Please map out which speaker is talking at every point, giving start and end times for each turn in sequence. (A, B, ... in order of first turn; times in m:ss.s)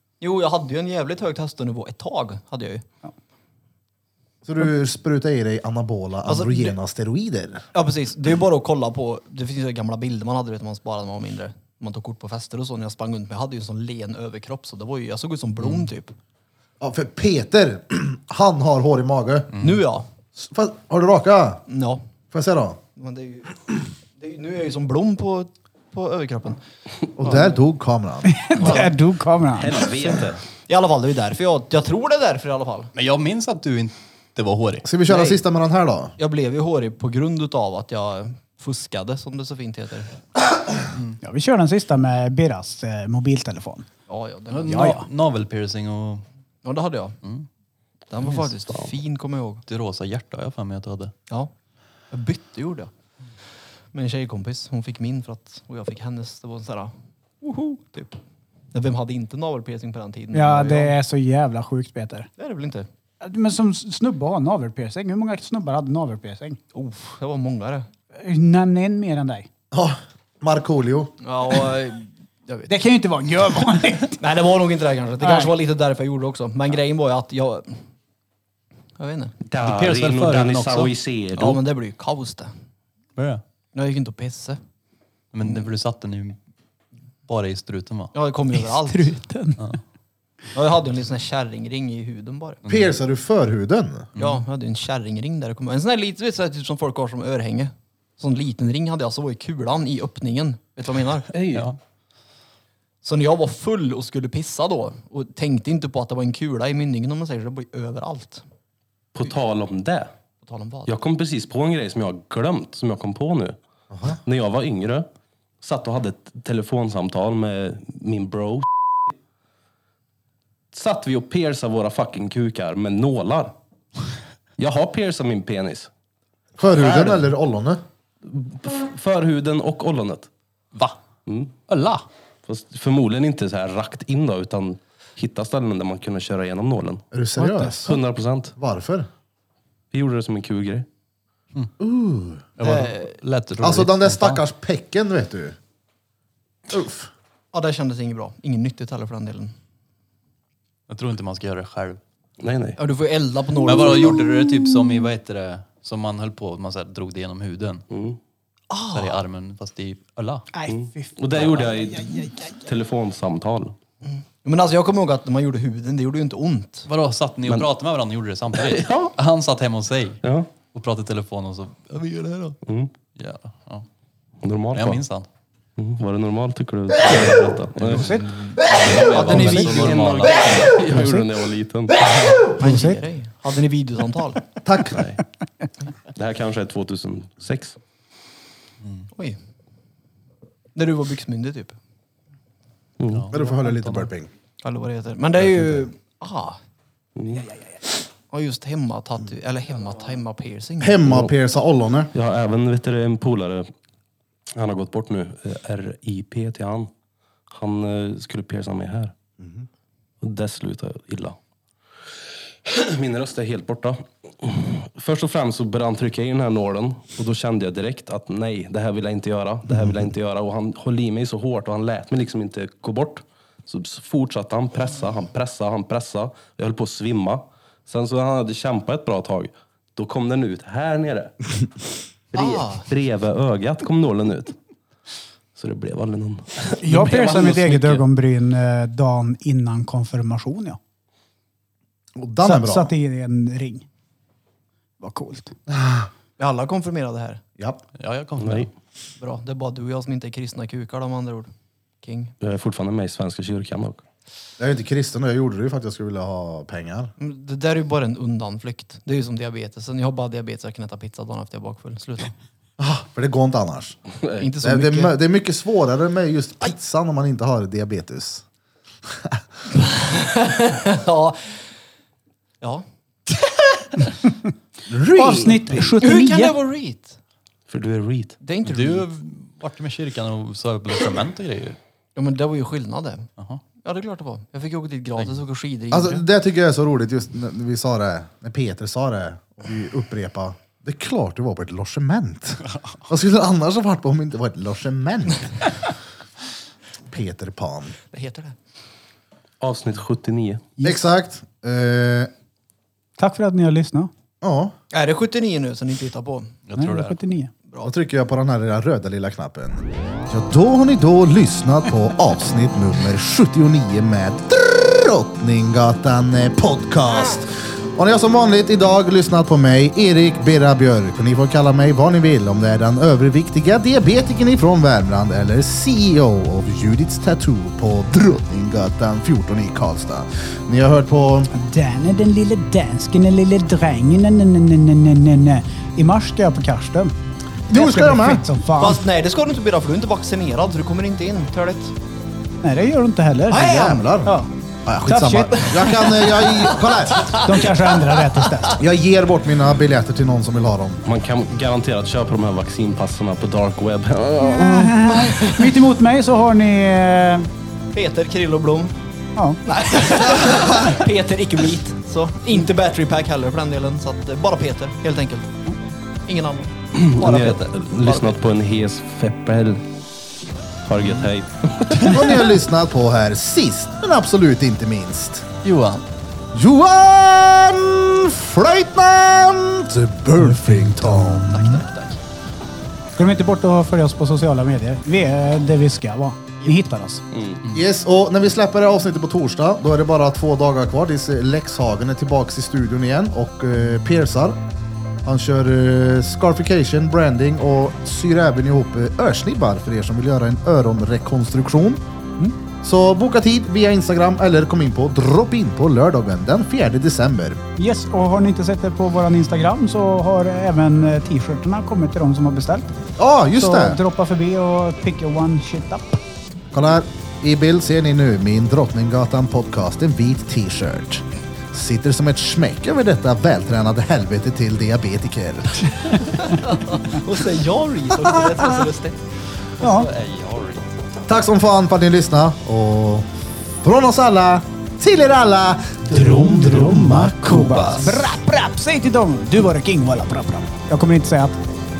0:00.2-0:02.8 A
0:04.4-0:07.6 B
0:06.2-0:06.8 A
0:07.7-0:16.1 A
0:16.8-0:19.5 B
0:19.5-0:19.8 C
0:19.6-0:20.1 A
0:20.3-0:21.6 B
0:21.7-0:22.0 A
0:22.3-0:22.8 B
0:23.0-0:26.6 A
0:27.2-0:28.8 B
0:28.2-0:29.8 D
0:28.6-0:28.8 A
0:29.5-0:30.4 E
0:30.7-0:32.9 A
0:32.9-0:34.9 C
0:34.8-0:36.1 B
0:35.1-0:35.4 A
0:36.2-0:40.2 A
0:40.9-0:41.2 C
0:41.2-0:43.8 D
0:44.1-0:45.0 A
0:44.5-0:46.2 C
0:44.7-0:45.1 D
0:46.6-0:47.2 A
0:48.1-0:49.6 A
0:48.2-0:48.5 C
0:49.7-0:51.1 C
0:52.1-0:52.9 A
0:53.9-0:58.2 A
0:58.7-1:00.9 A
1:00.3-1:02.3 D
1:02.4-1:02.9 A
1:03.2-1:06.6 D
1:06.7-1:07.9 A
1:08.2-1:09.5 D
1:09.7-1:11.1 B
1:11.2-1:12.7 A
1:12.7-1:14.2 D
1:14.2-1:17.8 A
1:15.2-1:15.5 D
1:19.0-1:19.3 A
1:19.4-1:21.6 E
1:19.6-1:20.9 C
1:21.3-1:22.5 A
1:23.2-1:23.4 C
1:23.7-1:24.6 A
1:25.3-1:26.4 C
1:27.2-1:28.1 C
1:28.1-1:29.2 A
1:28.6-1:29.6 D
1:30.5-1:32.6 A
1:32.6-1:32.9 C
1:32.7-1:34.1 B
1:34.1-1:34.4 C
1:34.2-1:41.3 A
1:41.3-1:41.7 E
1:41.5-1:41.8 C
1:43.0-1:48.4 A
1:49.1-1:50.1 E
1:50.4-1:50.9 A
1:50.8-1:53.6 E
1:53.9-1:54.2 B
1:54.1-1:55.1 E
1:55.6-1:58.6 E
2:00.7-2:03.5 E
2:04.6-2:05.9 E
2:06.6-2:07.8 B
2:08.2-2:10.3 E
2:11.3-2:11.6 E
2:11.7-2:12.0 C
2:12.4-2:17.0 E
2:17.1-2:18.0 B
2:17.4-2:18.0 D
2:17.8-2:18.5 E
2:18.6-2:19.1 B
2:19.9-2:20.9 E
2:21.8-2:22.4 B
2:22.6-2:24.4 C
2:22.6-2:23.1 A
2:23.6-2:25.6 B
2:26.7-2:27.1 B
2:27.5-2:29.5 A
2:30.9-2:32.0 C
2:32.4-2:32.8 E
2:32.8-2:34.6 A
2:33.6-2:37.8 C
2:37.9-2:38.2 E
2:38.7-2:39.2 A
2:38.9-2:40.5 C
2:40.5-2:42.7 D
2:40.7-2:43.8 E
2:44.0-2:46.9 A
2:46.9-2:52.6 C
2:48.6-2:49.1 E
2:50.2-2:50.5 E
2:52.6-2:52.9 E
2:53.1-2:53.8 C
2:54.4-2:55.0 E
2:54.7-2:55.3 C
2:55.8-3:01.9 E
2:57.8-3:00.8 C
2:57.9-2:58.4 D
2:58.8-3:00.2 A
3:00.8-3:01.3 D
3:02.0-3:04.4 A
3:02.3-3:03.0 D
3:04.6-3:05.0 B
3:04.9-3:05.2 E
3:06.1-3:07.8 E
3:08.8-3:09.1 C
3:10.7-3:11.8 A
3:13.0-3:13.3 E
3:13.1-3:14.1 C
3:13.3-3:14.3 B
3:14.6-3:16.6 A
3:17.2-3:17.5 E
3:18.3-3:21.0 A
3:20.8-3:22.1 B
3:22.1-3:23.7 E
3:24.5-3:26.9 E
3:27.5-3:29.1 E
3:29.4-3:29.6 B
3:30.2-3:31.4 E
3:32.6-3:51.3 E
3:52.3-3:54.6 E
3:52.3-3:52.9 A
3:55.5-3:58.0 E
3:56.8-4:00.8 D
4:02.1-4:02.9 B
4:02.4-4:03.8 D
4:05.0-4:05.5 D
4:05.7-4:06.1 B
4:06.4-4:07.4 A
4:08.0-4:08.7 C
4:08.4-4:08.7 E
4:09.2-4:11.5 A
4:12.0-4:12.3 A
4:12.4-4:14.0 E
4:14.6-4:17.1 B
4:17.2-4:22.3 A
4:22.8-4:24.0 B
4:24.4-4:25.2 A
4:24.6-4:28.4 B
4:29.1-4:29.4 B
4:29.7-4:31.6 A
4:32.6-4:33.4 A
4:34.9-4:35.9 B
4:35.0-4:36.5 D
4:36.0-4:37.2 A
4:37.7-4:38.4 E
4:38.4-4:39.1 A
4:38.6-4:41.8 C
4:42.2-4:43.3 A
4:43.8-4:46.2 A
4:45.9-4:55.7 B
4:57.1-4:58.0 B
4:58.1-4:58.6 A
4:59.6-5:00.7 E
5:00.8-5:02.3 B
5:03.2-5:04.1 D
5:04.4-5:04.7 B
5:04.9-5:06.5 A
5:06.6-5:07.2 C
5:06.8-5:07.5 D
5:07.8-5:31.5 B
5:31.5-5:37.1 D
5:37.7-5:38.4 B
5:37.7-5:39.0 D
5:38.8-5:41.9 A
5:42.6-5:44.5 D
5:43.5-5:47.4 B
5:45.0-5:46.2 D
5:46.4-5:47.5 A
5:47.3-5:48.8 D
5:48.8-5:51.0 B
5:51.0-5:55.1 E
5:54.4-5:57.5 D
5:57.9-5:58.9 A
5:59.6-6:05.5 A
6:00.5-6:00.8 B
6:06.3-6:08.4 A
6:06.9-6:09.8 E
6:10.9-6:12.4 E
6:12.0-6:15.4 B
6:15.6-6:16.0 C
6:16.5-6:21.8 B
6:20.4-6:21.6 D
6:23.2-6:27.2 D
6:27.3-6:27.6 E
6:27.7-6:34.6 B
6:35.2-6:42.0 B
6:42.8-6:47.6 B
6:47.8-6:52.9 D
6:53.2-6:54.0 B
6:53.5-6:56.2 D
6:56.7-7:06.1 B
7:06.5-7:09.2 A
7:08.4-7:08.6 B
7:09.8-7:10.1 D
7:09.8-7:10.9 C
7:11.3-7:13.3 B
7:13.8-7:17.6 B
7:16.1-7:21.6 D
7:17.4-7:18.3 C